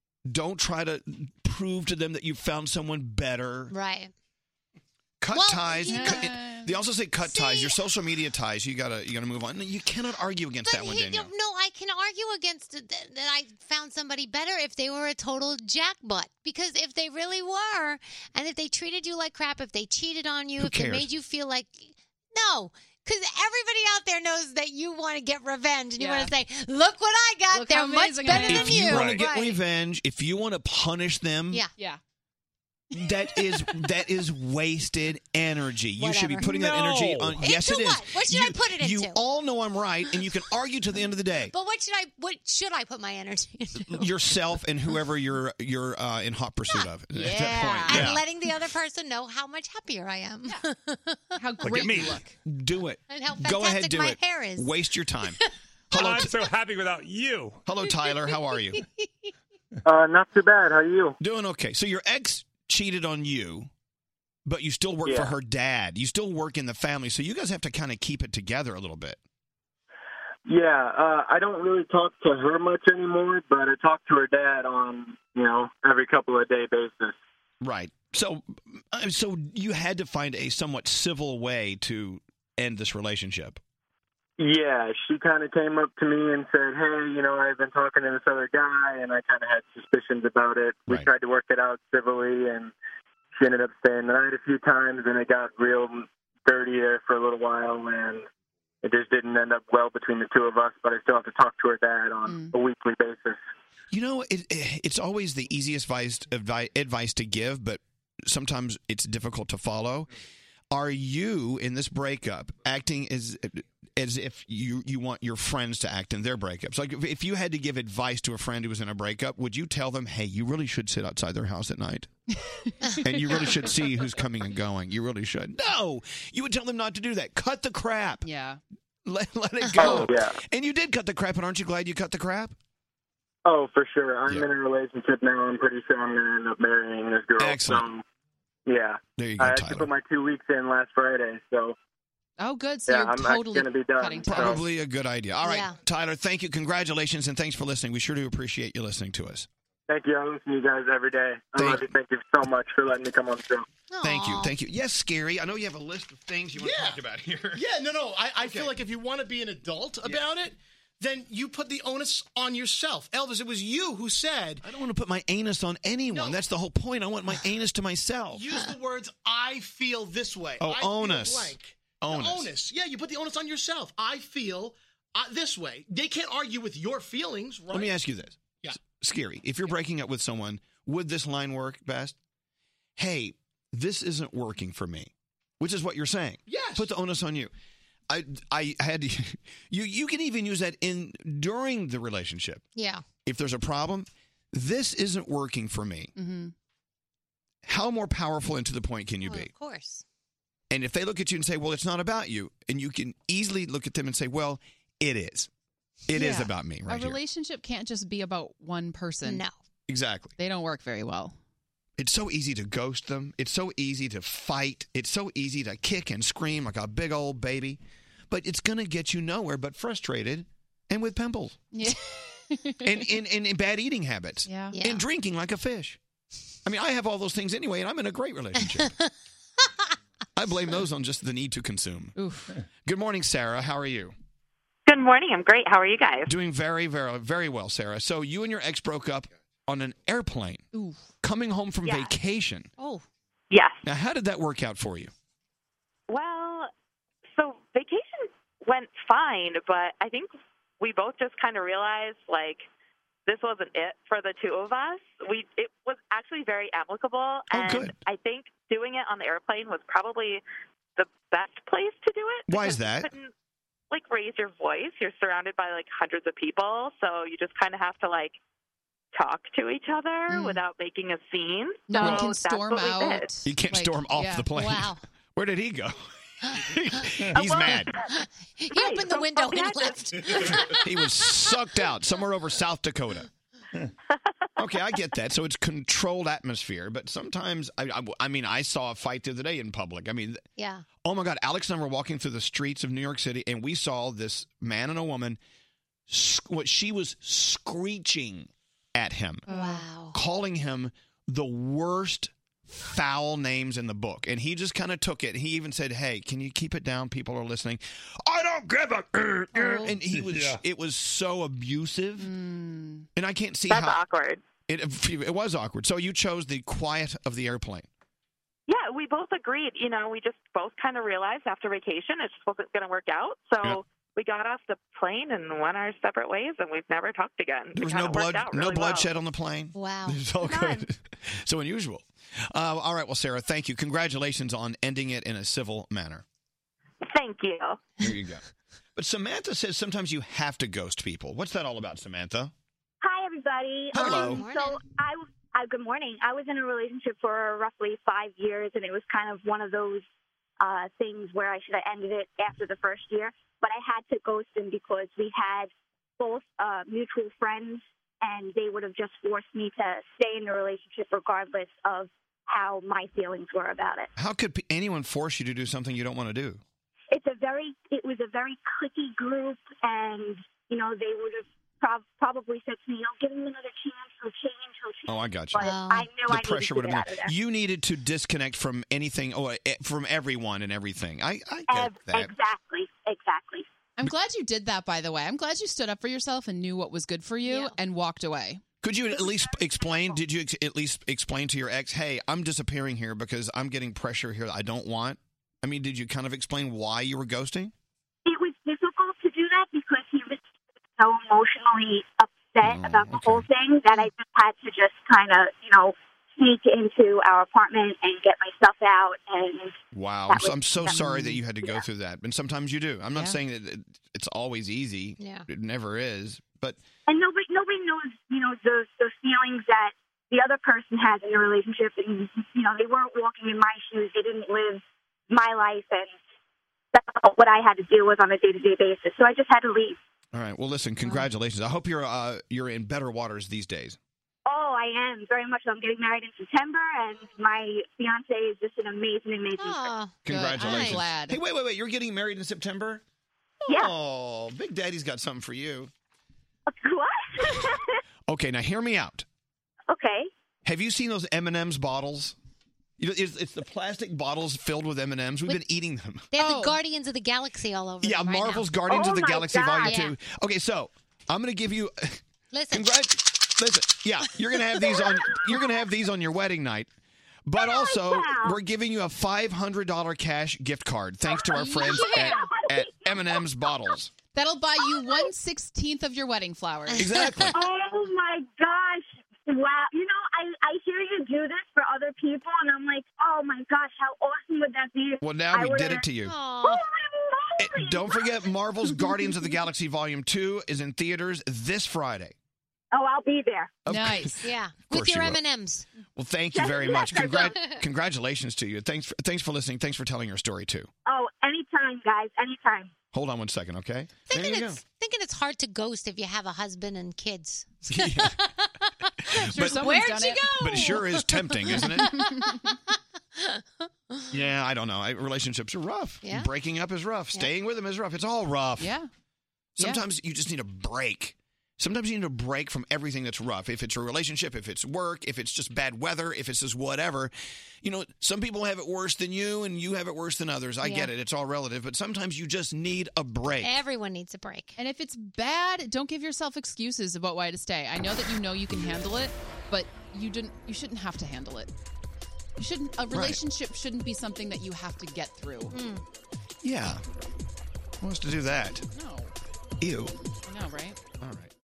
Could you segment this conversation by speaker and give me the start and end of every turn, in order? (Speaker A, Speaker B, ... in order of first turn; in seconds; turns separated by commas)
Speaker A: 0.3-3.7, Speaker B: 3.7-4.1, Speaker A: 5.2-11.3, Speaker B: 5.3-6.3, Speaker C: 5.8-6.8, Speaker B: 7.2-7.8, Speaker B: 10.7-29.6, Speaker A: 20.6-21.1, Speaker C: 26.0-26.3, Speaker C: 27.5-28.9, Speaker D: 28.4-29.2, Speaker A: 28.4-31.6, Speaker A: 33.0-41.5, Speaker C: 33.0-33.8, Speaker B: 36.0-36.4, Speaker D: 36.4-37.5, Speaker B: 37.5-39.2, Speaker B: 41.5-44.1, Speaker A: 43.8-48.3, Speaker C: 47.1-48.1, Speaker B: 47.9-51.6, Speaker C: 51.4-52.4, Speaker D: 51.6-52.2, Speaker A: 52.5-55.4, Speaker B: 53.1-54.8, Speaker A: 55.9-56.4, Speaker D: 56.0-57.6, Speaker A: 57.7-58.8, Speaker B: 58.8-59.1, Speaker E: 59.9-61.1, Speaker A: 61.2-63.7, Speaker A: 64.5-69.2, Speaker E: 65.0-65.3, Speaker E: 70.5-77.2, Speaker A: 77.6-83.6, Speaker E: 84.4-92.7, Speaker E: 93.4-98.2, Speaker E: 98.8-103.4, Speaker C: 102.3-102.5, Speaker A: 103.9-110.1, Speaker A: 110.7-122.1, Speaker C: 122.5-123.5, Speaker A: 123.0-128.3, Speaker C: 128.2-128.6, Speaker A: 129.1-132.6, Speaker E: 129.8-130.3, Speaker E: 133.4-138.0, Speaker A: 137.4-137.9, Speaker E: 138.7-141.8, Speaker A: 139.2-139.9, Speaker C: 142.4-144.6, Speaker E: 142.9-144.6, Speaker A: 144.3-149.5, Speaker B: 145.4-145.7, Speaker E: 149.9-153.7, Speaker A: 151.6-151.9, Speaker B: 153.9-154.5, Speaker A: 154.0-157.7, Speaker F: 156.6-157.0, Speaker F: 157.5-164.7, Speaker A: 158.4-158.8, Speaker A: 164.6-168.6, Speaker F: 166.1-166.4, Speaker F: 168.3-178.0, Speaker A: 170.6-172.5, Speaker A: 177.7-182.2, Speaker A: 183.0-187.5, Speaker F: 186.5-186.9, Speaker A: 188.1-192.7, Speaker B: 192.8-193.1, Speaker A: 193.2-196.1, Speaker C: 196.2-196.5, Speaker A: 197.7-199.5, Speaker B: 199.2-200.0, Speaker A: 200.7-205.5, Speaker A: 206.1-207.2, Speaker C: 206.1-209.4, Speaker B: 209.2-209.5, Speaker A: 209.9-210.3, Speaker C: 210.4-211.3, Speaker A: 212.0-221.6, Speaker C: 221.7-222.9, Speaker A: 222.8-226.0, Speaker C: 224.4-224.8, Speaker B: 224.7-225.1, Speaker A: 226.7-228.9, Speaker A: 230.4-232.2, Speaker C: 232.2-232.6, Speaker A: 232.8-234.1, Speaker G: 234.9-236.3, Speaker A: 236.3-240.7, Speaker C: 240.7-241.0, Speaker A: 241.2-242.7, Speaker G: 241.8-242.1, Speaker B: 242.8-243.0, Speaker G: 243.5-243.8, Speaker A: 243.8-245.1, Speaker G: 246.1-246.7, Speaker G: 247.4-252.7, Speaker G: 253.3-260.4, Speaker A: 257.5-258.0, Speaker G: 261.0-263.3, Speaker A: 262.5-263.1, Speaker G: 263.9-268.4, Speaker G: 269.1-273.3, Speaker C: 270.3-270.6, Speaker C: 271.9-274.5, Speaker A: 272.0-272.3, Speaker A: 273.4-277.9, Speaker B: 274.5-275.0, Speaker G: 277.4-278.0, Speaker B: 278.1-280.8, Speaker G: 278.7-280.8, Speaker A: 280.4-283.3, Speaker A: 284.6-290.4, Speaker B: 290.6-290.8, Speaker A: 291.0-295.4, Speaker A: 296.1-312.3, Speaker B: 299.5-300.1, Speaker C: 309.5-310.0, Speaker D: 310.1-310.6, Speaker C: 312.2-313.1, Speaker A: 313.2-314.0, Speaker G: 313.7-314.4, Speaker A: 314.7-317.9, Speaker G: 318.7-329.1, Speaker A: 327.8-336.2, Speaker B: 329.7-330.2, Speaker H: 330.4-330.8, Speaker G: 337.1-337.8, Speaker A: 338.0-338.4, Speaker A: 338.9-342.5, Speaker H: 343.0-350.0, Speaker A: 343.9-344.5, Speaker B: 344.0-344.8, Speaker H: 350.6-364.1, Speaker A: 364.2-366.6, Speaker H: 367.1-377.3, Speaker A: 375.1-375.7, Speaker B: 375.6-376.1, Speaker A: 376.3-382.3, Speaker H: 381.7-383.6, Speaker C: 384.0-388.6, Speaker B: 387.4-387.8, Speaker A: 388.8-397.7, Speaker H: 389.1-390.2, Speaker H: 398.3-400.4, Speaker H: 401.0-409.8, Speaker A: 402.6-403.5, Speaker A: 409.9-416.8, Speaker H: 410.3-411.0, Speaker C: 413.1-413.4, Speaker B: 415.2-415.4, Speaker H: 417.1-426.2, Speaker H: 426.9-430.0, Speaker A: 430.3-434.0, Speaker H: 434.4-439.9, Speaker B: 439.6-441.0, Speaker A: 440.2-443.0, Speaker C: 440.3-441.4, Speaker H: 443.7-443.9, Speaker A: 443.7-445.9, Speaker H: 446.7-447.9, Speaker A: 448.3-449.2, Speaker H: 449.9-450.3, Speaker A: 450.6-452.4, Speaker A: 453.0-456.3, Speaker B: 456.3-458.8, Speaker C: 456.4-456.8, Speaker A: 458.0-466.9, Speaker H: 458.9-460.1, Speaker B: 459.8-460.1, Speaker B: 462.5-462.9, Speaker A: 467.4-474.1, Speaker H: 467.6-468.6, Speaker H: 471.3-473.4, Speaker C: 471.5-472.5, Speaker C: 474.3-477.1, Speaker B: 476.9-477.5, Speaker A: 476.9-477.6, Speaker H: 477.5-486.0, Speaker A: 485.2-486.4, Speaker B: 486.2-486.8, Speaker H: 486.6-488.3, Speaker A: 487.6-492.3, Speaker H: 492.9-493.7, Speaker A: 493.9-495.4, Speaker C: 493.9-494.5, Speaker B: 494.4-495.9, Speaker A: 496.1-500.9, Speaker H: 496.5-497.6, Speaker B: 497.5-497.8, Speaker H: 501.1-502.9, Speaker A: 503.1-504.8, Speaker B: 504.3-508.6, Speaker A: 507.9-508.5, Speaker C: 509.3-510.6, Speaker A: 509.3-510.0, Speaker B: 509.6-512.7, Speaker A: 510.6-512.3, Speaker C: 511.8-512.5, Speaker A: 514.3-518.9, Speaker B: 516.2-516.5, Speaker C: 518.8-519.1, Speaker A: 519.8-533.8, Speaker B: 530.8-531.1, Speaker B: 533.4-534.8, Speaker C: 534.8-541.7, Speaker C: 542.6-545.7, Speaker A: 543.1-543.4, Speaker B: 545.7-546.0, Speaker A: 546.6-547.0, Speaker A: 548.0-548.9, Speaker C: 548.9-549.3, Speaker A: 549.8-550.1, Speaker C: 550.5-551.0, Speaker A: 551.2-551.5